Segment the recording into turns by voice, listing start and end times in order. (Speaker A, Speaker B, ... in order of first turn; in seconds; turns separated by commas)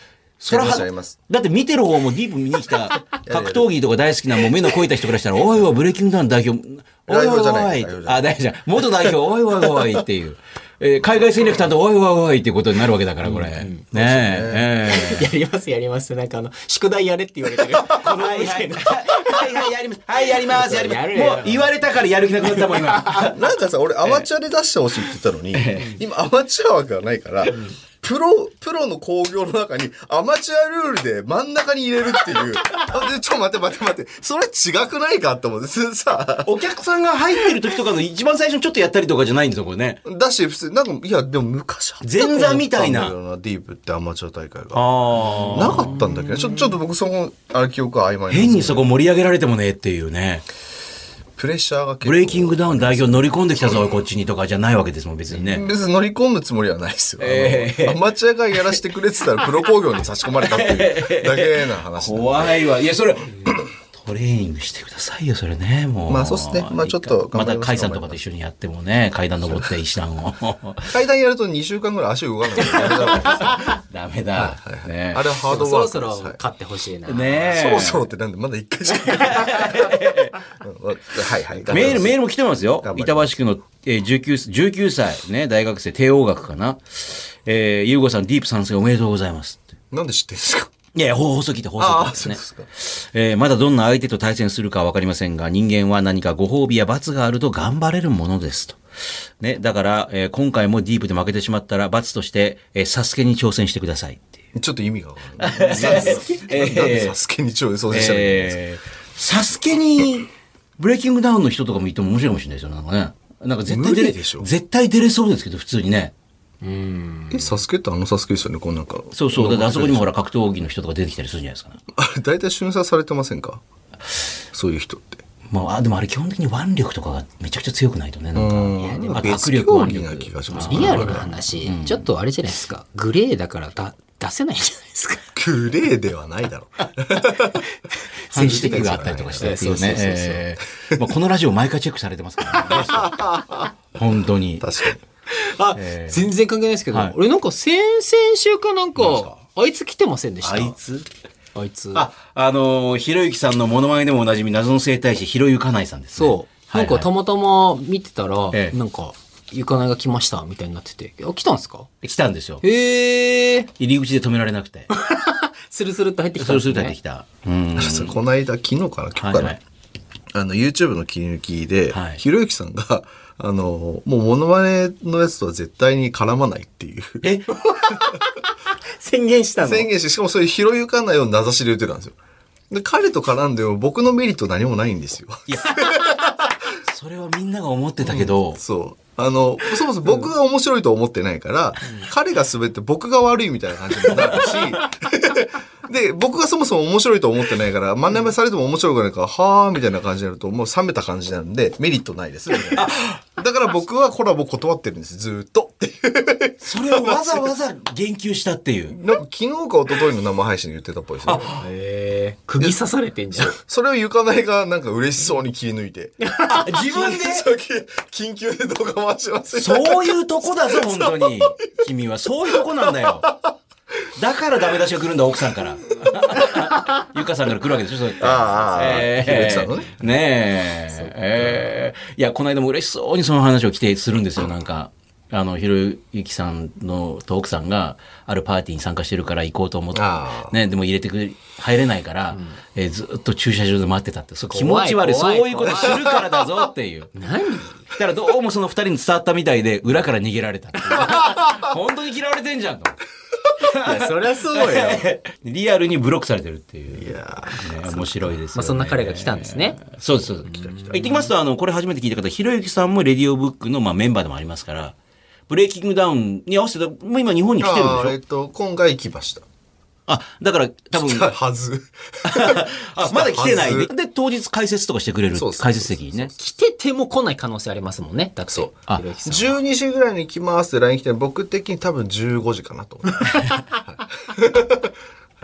Speaker A: 0.4-15.3, Speaker B: 0.5-1.2, Speaker B: 3.3-3.7, Speaker B: 7.1-8.3, Speaker C: 13.2-13.8, Speaker B: 13.9-14.7, Speaker C: 14.8-19.6, Speaker A: 17.8-23.4, Speaker C: 20.2-21.8, Speaker C: 22.4-23.3, Speaker B: 23.3-36.5, Speaker A: 25.5-26.0, Speaker C: 27.5-27.8, Speaker A: 36.5-40.0, Speaker B: 40.0-48.9, Speaker A: 42.0-43.1, Speaker A: 44.7-46.0, Speaker C: 45.4-46.8, Speaker A: 48.3-50.5, Speaker B: 51.4-53.3, Speaker A: 52.0-55.7, Speaker B: 55.3-62.7, Speaker A: 57.2-58.0, Speaker A: 60.4-71.0, Speaker B: 66.1-68.2, Speaker B: 70.9-73.7, Speaker A: 72.6-75.3, Speaker B: 74.3-76.4, Speaker C: 75.5-77.6, Speaker A: 77.1-78.1, Speaker B: 77.4-82.2, Speaker A: 79.0-80.4, Speaker A: 81.7-89.6, Speaker B: 82.8-83.3, Speaker B: 89.9-90.7, Speaker A: 90.9-98.8, Speaker B: 91.8-92.7, Speaker A: 99.4-104.3, Speaker B: 104.5-108.6, Speaker A: 105.4-107.2, Speaker C: 105.7-106.4, Speaker A: 107.9-116.1, Speaker B: 113.7-114.5, Speaker C: 116.6-117.6, Speaker B: 117.3-120.1, Speaker A: 119.1-121.8, Speaker B: 121.9-123.6, Speaker B: 124.5-125.2, Speaker A: 125.5-132.1, Speaker B: 128.3-131.3, Speaker C: 128.8-129.1, Speaker C: 130.6-135.3, Speaker B: 135.3-137.7, Speaker C: 137.4-140.5, Speaker A: 138.3-143.3, Speaker B: 138.3-139.8, Speaker B: 142.6-143.7, Speaker A: 143.9-144.7, Speaker B: 144.6-145.0, Speaker C: 145.3-150.8, Speaker A: 145.8-146.3, Speaker A: 150.4-151.1, Speaker C: 151.6-152.1, Speaker A: 151.9-157.1, Speaker C: 156.2-161.9, Speaker A: 162.0-162.6, Speaker C: 162.6-163.7, Speaker A: 163.8-164.9, Speaker C: 164.9-166.9, Speaker A: 166.4-168.2, Speaker B: 167.8-169.6, Speaker A: 169.2-169.6, Speaker B: 170.3-177.3, Speaker A: 171.9-172.2, Speaker A: 177.2-177.5, Speaker C: 177.6-178.4, Speaker C: 179.0-179.9, Speaker B: 179.6-182.2, Speaker B: 182.7-186.5, Speaker A: 185.5-186.0, Speaker A: 186.8-188.6, Speaker B: 188.0-207.4, Speaker A: 194.4-194.6, Speaker A: 202.7-203.2, Speaker A: 206.6-209.0, Speaker B: 208.9-211.6, Speaker A: 211.3-211.7, Speaker C: 211.6-213.6, Speaker B: 213.3-221.6, Speaker C: 216.2-216.7, Speaker A: 216.4-217.5, Speaker A: 219.6-223.3, Speaker B: 222.5-223.5, Speaker A: 224.2-247.2, Speaker B: 228.2-230.0, Speaker B: 239.9-240.6, Speaker C: 242.3-242.6, Speaker C: 244.5-246.2, Speaker C: 247.2-247.9, Speaker A: 247.9-253.0, Speaker C: 250.9-251.5, Speaker A: 253.6-264.9, Speaker C: 253.6-255.1, Speaker B: 256.9-258.4, Speaker C: 258.5-259.8, Speaker B: 260.4-261.2, Speaker C: 260.5-261.3, Speaker A: 265.5-268.2, Speaker B: 267.6-269.4, Speaker A: 270.1-271.3, Speaker B: 270.9-273.9, Speaker A: 272.2-276.3, Speaker B: 275.3-276.3, Speaker C: 276.4-279.6, Speaker B: 279.3-284.9